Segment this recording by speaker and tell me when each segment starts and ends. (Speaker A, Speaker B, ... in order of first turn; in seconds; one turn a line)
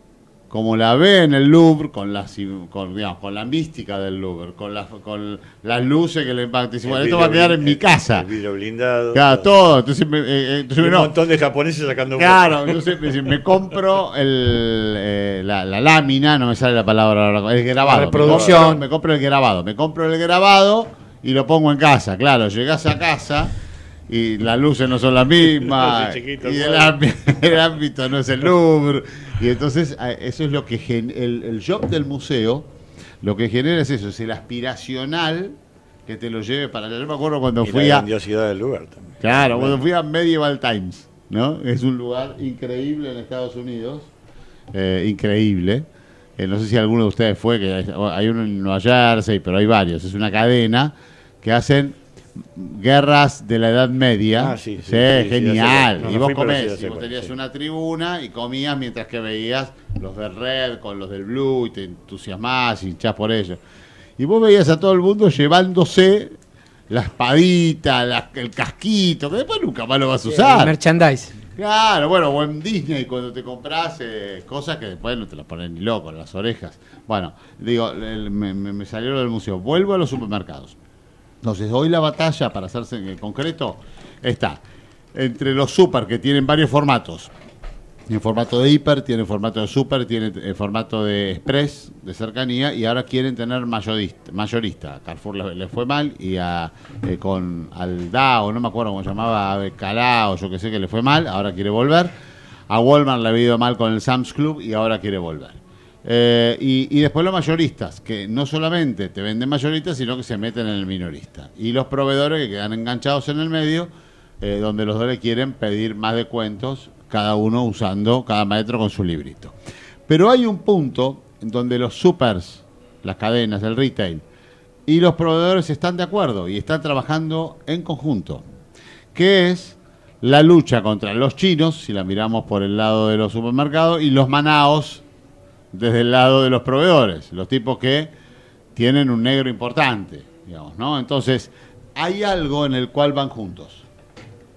Speaker A: 0.5-8.3
Speaker B: 6.8-9.5
Speaker A: 9.1-11.1
Speaker B: 10.8-12.6
Speaker A: 12.2-23.5
Speaker C: 17.8-18.9
Speaker B: 18.2-18.7
Speaker A: 24.1-32.7
Speaker B: 25.6-27.0
Speaker A: 33.2-38.1
Speaker B: 37.6-39.8
Speaker A: 39.2-44.1
Speaker A: 44.7-45.9
Speaker A: 46.4-63.6
Speaker B: 54.4-57.4
Speaker A: 64.2-66.4
Speaker A: 66.9-70.7
Speaker C: 70.2-71.4
Speaker A: 71.6-80.8
Speaker A: 81.4-84.6
Speaker A: 85.1-87.3
Speaker A: 88.1-102.1
Speaker A: 102.7-119.6
Speaker A: 120.1-124.2
Speaker A: 124.9-128.4
Speaker A: 129.2-135.0
Speaker A: 135.7-138.1
Speaker A: 138.8-143.9